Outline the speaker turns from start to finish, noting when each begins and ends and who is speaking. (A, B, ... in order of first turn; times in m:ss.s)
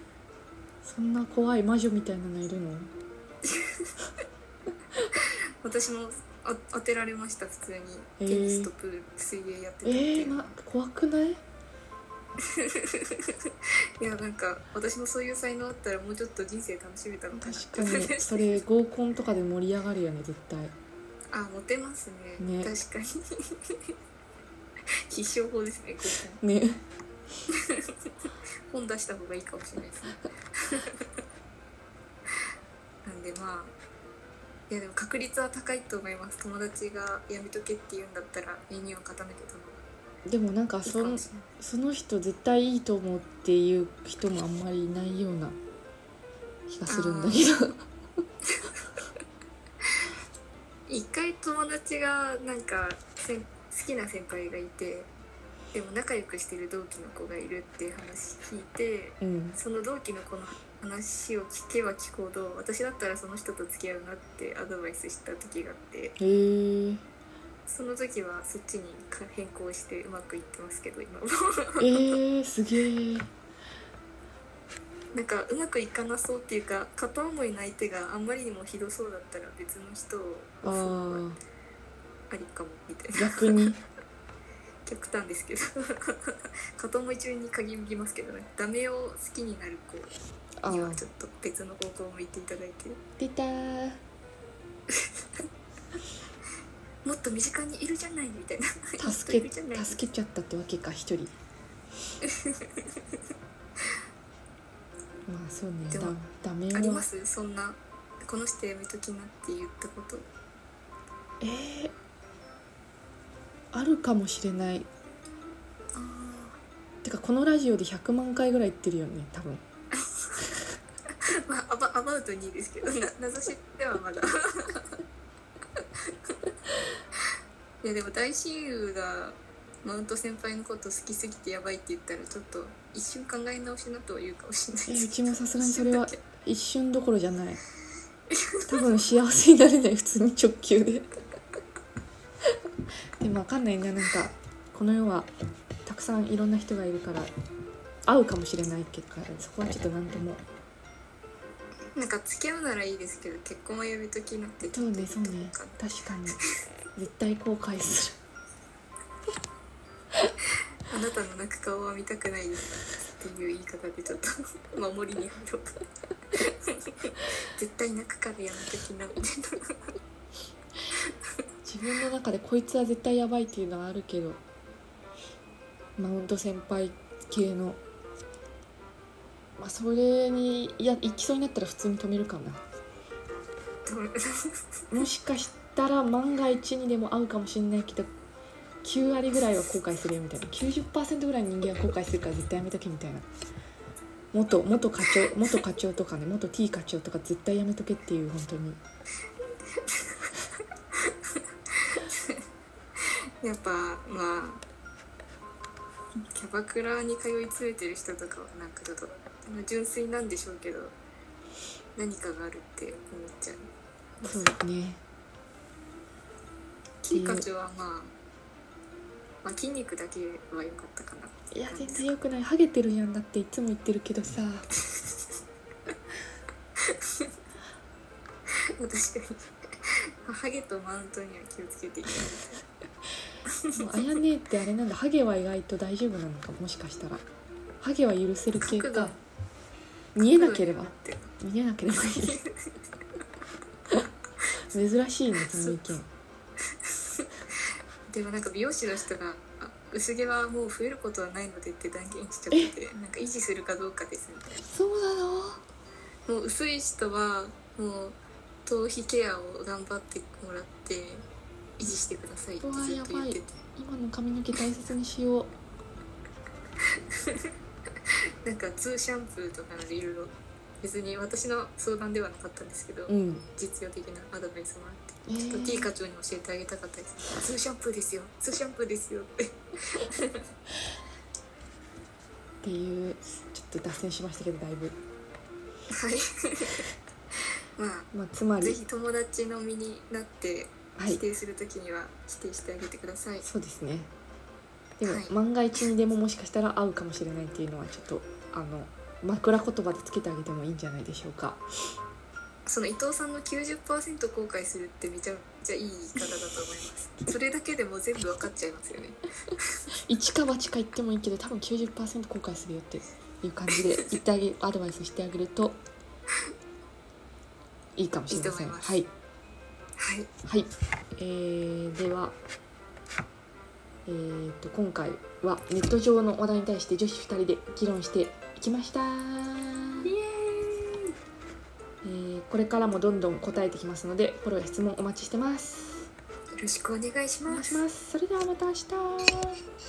0:00.8-0:02.9 A
0:03.4-0:03.9 B
0:05.2-0:10.6 B
0:08.2-0:08.7 A
0:09.8-0:11.4 A
0:12.5-0:18.6 B
0:17.4-0:20.7 A
0:21.3-0:23.9 B
0:22.4-0:22.7 A
0:25.1-0:26.4 B
0:26.4-0:26.8 A
0:27.5-0:28.1 B
0:28.7-0:31.0 B
0:33.0-0:33.7 B
0:34.7-0:39.8 B
0:40.2-0:45.6 A
0:40.8-0:41.5 B
0:46.7-0:47.8 A
0:46.9-0:47.5 B
0:50.9-0:55.1 B
0:55.7-1:06.2 B
0:59.2-0:59.6 A
1:06.2-1:07.0 A
1:07.7-1:12.2 B
1:11.8-1:13.3 A
1:15.1-1:21.2 B
1:20.6-1:21.4 A
1:22.3-1:23.6 B
1:23.1-1:23.8 A
1:24.8-1:30.1 B
1:30.6-1:31.0 A
1:30.7-1:33.0 B
1:33.2-1:34.0 A
1:37.0-1:40.0 B
1:39.0-1:41.3 A
1:42.2-1:42.9 B
1:45.3-1:47.0 A
1:45.9-1:46.2 B
1:46.7-1:50.2 B
1:51.4-1:51.9 A
1:53.7-1:54.9 A
1:55.9-1:56.6 B
1:57.0-1:59.6 A
1:59.9-2:00.3 B
2:01.3-2:04.9 B
2:05.8-2:06.3 B
2:07.8-2:16.2 B
2:14.9-2:17.6 A
2:18.3-2:18.8 B
2:18.6-2:21.1 A
2:23.2-2:25.3 A
2:25.8-2:27.3 A
2:28.1-2:30.4 A
2:32.0-2:36.4 B
2:34.7-2:36.4 A
2:36.9-2:38.2 A
2:40.9-2:45.8 B
2:46.3-2:49.8 B
2:51.6-2:54.4 A
2:56.0-2:57.8 A
2:59.6-3:02.6 A
3:03.8-3:04.6 B
3:04.9-3:08.1 A
3:08.8-3:13.2 A
3:14.3-3:18.8 A
3:19.7-3:20.3 B
3:20.9-3:22.4 B
3:23.0-3:24.6 B
3:26.3-3:31.0 B
3:32.0-3:34.6 B
3:34.2-3:35.0 A
3:37.0-3:38.1 B
3:37.1-3:37.5 A
3:39.4-3:42.0 B
3:41.5-3:44.7 A
3:46.8-3:47.3 B
3:48.8-3:52.5 B
3:53.5-3:54.2 B
3:53.7-3:57.2 A
3:57.8-3:59.2 A
3:58.6-3:59.2 B
4:00.1-4:02.4 A
4:00.3-4:01.3 B
4:02.1-4:02.7 B
4:04.7-4:06.1 A
4:05.5-4:06.0 B
4:06.8-4:07.3 B
4:08.1-4:14.6 B
4:14.6-4:15.6 A
4:16.3-4:21.2 B
4:21.8-4:23.6 B
4:22.6-4:25.5 A
4:27.2-4:27.5 B
4:28.4-4:40.4 B
4:33.1-4:33.4 A
4:35.3-4:35.9 A
4:42.6-4:45.0 A
4:45.9-4:46.8 B
4:47.8-4:53.4 B
4:48.1-4:48.8 A
4:51.0-4:51.2 A
4:53.4-4:54.1 A
4:55.0-5:01.6 A
4:55.0-4:55.3 B
5:02.6-5:09.8 B
5:10.0-5:15.8 A
5:18.0-5:19.1 A
5:18.3-5:19.0 B
5:20.0-5:20.3 B
5:20.4-5:22.4 A
5:24.0-5:30.1 A
5:30.0-5:31.1 B
5:32.0-5:36.1 A
5:36.6-5:37.8 B
5:37.5-5:39.6 A